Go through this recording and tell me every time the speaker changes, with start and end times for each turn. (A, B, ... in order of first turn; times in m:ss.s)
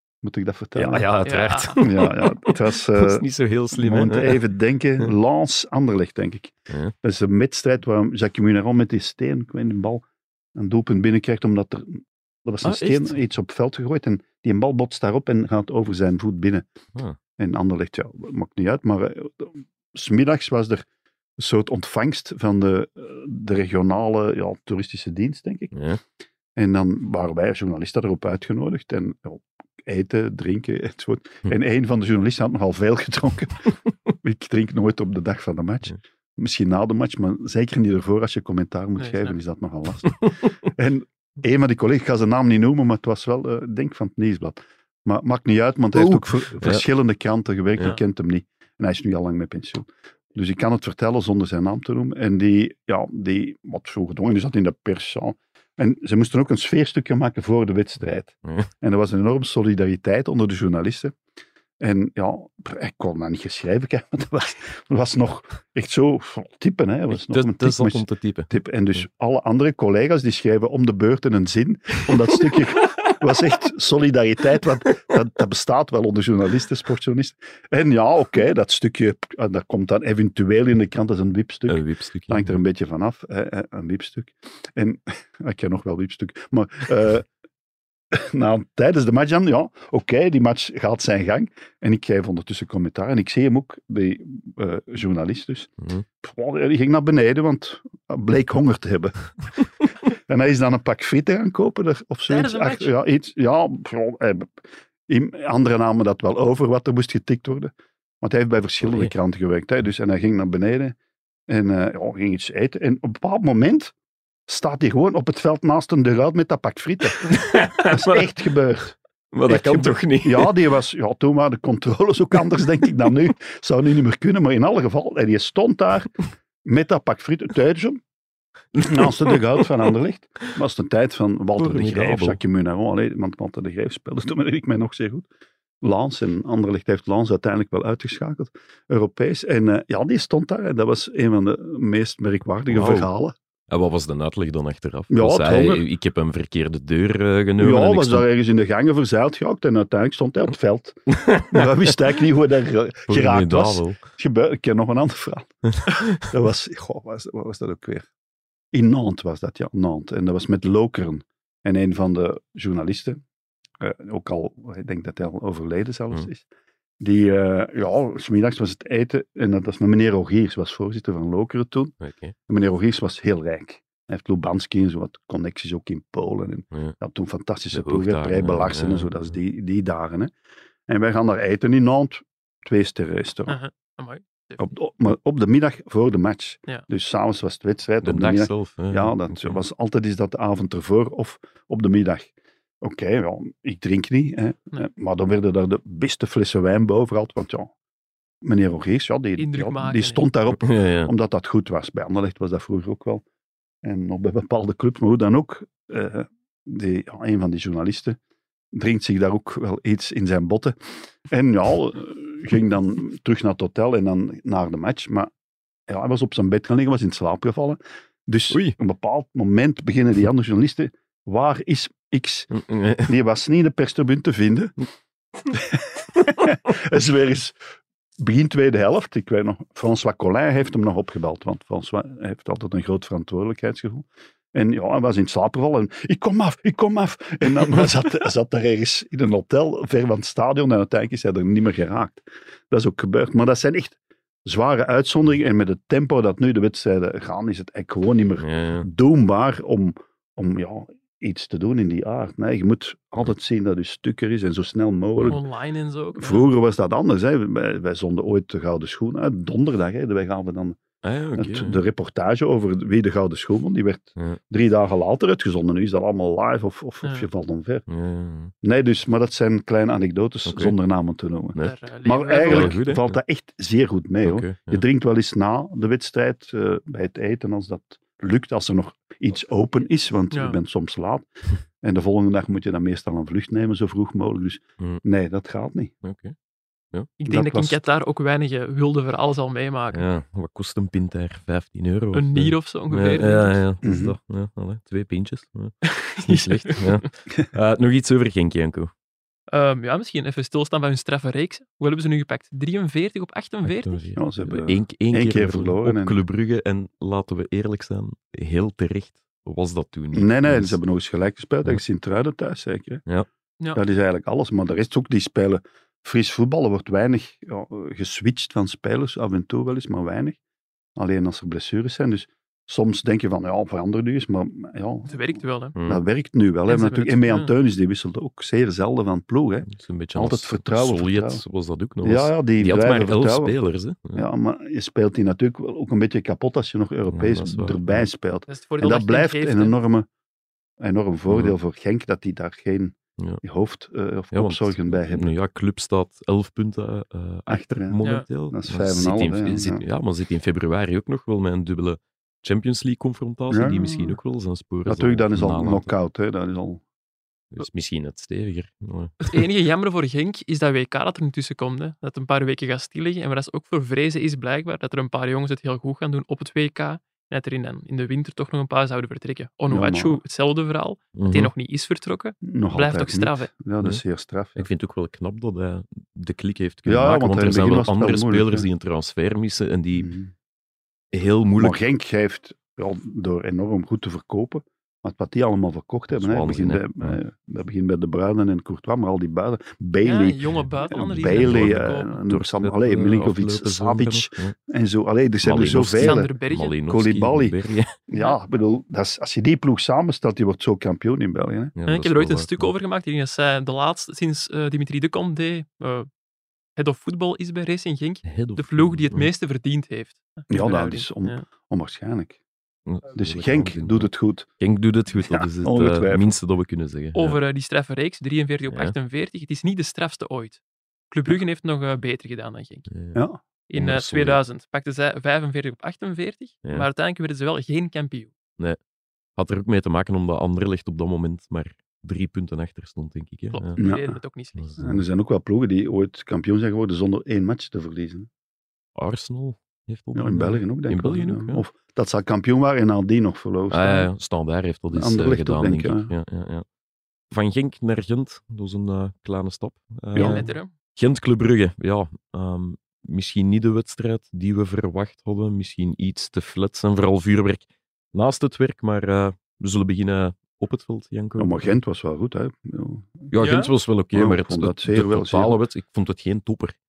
0:00.2-0:01.1 A
0:00.8-0:04.5 B
0:01.2-0:01.8 C
0:01.8-0:16.6 A
0:12.6-0:13.2 B
0:17.4-0:20.9 A
0:21.4-0:25.7 A
0:25.7-0:26.0 B
0:26.6-1:01.2 A
0:39.0-0:39.4 C
0:45.9-0:46.8 B
1:01.8-1:27.3 A
1:07.1-1:09.0 B
1:21.7-1:22.6 B
1:28.1-1:51.0 A
1:42.3-1:42.9 C
1:48.8-1:49.1 B
1:51.5-1:53.9 A
1:54.5-2:06.1 A
1:57.2-1:58.3 B
1:59.3-2:00.6 B
2:06.6-2:08.0 A
2:08.8-2:09.4 B
2:08.8-2:15.3 A
2:11.6-2:12.4 B
2:15.8-2:23.4 A
2:22.7-2:23.1 B
2:23.7-2:28.2 B
2:25.1-2:25.8 A
2:27.6-2:35.5 A
2:31.1-2:31.7 B
2:33.1-2:34.0 B
2:35.8-2:36.2 B
2:36.1-2:38.1 A
2:38.7-2:43.2 A
2:43.8-2:46.5 A
2:47.0-2:52.0 A
2:52.0-2:52.3 B
2:52.5-3:00.3 A
2:57.7-2:59.3 B
3:00.9-3:03.6 A
3:03.5-3:04.7 C
3:04.6-3:17.7 A
3:08.0-3:09.6 B
3:18.4-3:23.2 A
3:19.4-3:20.2 C
3:20.6-3:21.1 B
3:23.8-3:28.2 A
3:28.7-3:35.3 A
3:35.9-3:42.5 A
3:42.5-3:43.1 B
3:43.0-3:44.7 A
3:45.5-3:47.6 A
3:48.2-4:15.4 A
4:08.4-4:08.9 B
4:15.3-4:16.5 C
4:16.2-4:20.8 A
4:21.0-4:21.8 B
4:21.4-4:27.8 A
4:27.0-4:27.3 C
4:27.9-4:28.5 B
4:28.6-4:41.3 A
4:30.5-4:30.8 B
4:31.6-4:32.8 C
4:32.4-4:33.2 B
4:34.2-4:34.8 B
4:40.3-4:40.6 C
4:41.8-4:45.9 A
4:46.0-4:46.3 B
4:47.2-4:50.1 C
4:47.3-4:47.8 A
4:49.9-4:58.9 B
4:52.1-4:53.6 C
4:53.8-4:54.2 A
4:55.9-4:57.1 C
4:59.5-5:04.2 C
5:03.6-5:10.8 B
5:04.2-5:06.2 A
5:10.1-5:13.0 A
5:13.7-5:20.4 A
5:21.0-5:25.2 A
5:25.1-5:25.8 C
5:25.8-5:26.0 B
5:25.9-5:31.4 A
5:26.7-5:27.5 C
5:29.7-5:34.2 B
5:32.0-5:33.5 A
5:34.1-5:40.1 A
5:37.1-5:38.1 B
5:38.5-5:39.8 C
5:40.8-5:45.3 A
5:41.3-5:41.6 B
5:44.3-5:55.9 B
5:47.5-5:48.0 A
5:48.5-5:49.8 A
5:53.5-5:54.2 A
5:54.9-5:56.8 A
5:57.5-5:59.4 B
5:59.3-6:13.5 C
6:09.7-6:10.2 A
6:11.2-6:11.5 B
6:12.4-6:14.7 A
6:14.6-6:20.1 B
6:16.9-6:18.7 A
6:19.9-6:20.3 A
6:21.1-6:21.8 B
6:21.6-6:36.3 A
6:26.1-6:27.2 B
6:30.0-6:32.1 C
6:31.2-6:34.5 B
6:35.4-6:37.9 B
6:35.8-6:36.8 C
6:36.9-6:37.6 A
6:38.1-6:41.8 A
6:41.8-6:42.7 B
6:41.9-6:46.1 C
6:46.8-6:51.4 C
6:48.2-6:49.3 B
6:50.5-6:52.4 A
6:52.9-6:57.4 B
6:53.1-6:54.5 A
6:55.3-6:56.3 A
6:57.1-7:00.6 C
6:58.7-6:58.9 B
7:01.1-7:02.9 C
7:02.9-7:03.2 B
7:03.2-7:03.4 A
7:03.7-7:08.3 C
7:03.7-7:04.4 B
7:09.4-7:13.8 B
7:13.5-7:14.8 C
7:13.8-7:14.2 A
7:14.6-7:15.0 B
7:14.8-7:18.3 A
7:19.0-7:21.6 B
7:20.2-7:24.1 A
7:23.7-7:26.6 B
7:24.9-7:26.1 A
7:27.3-7:41.6 B
7:30.2-7:30.4 A
7:30.2-7:30.7 C
7:41.4-7:43.4 A
7:43.3-7:46.8 B
7:43.4-7:43.7 C
7:44.1-7:45.6 A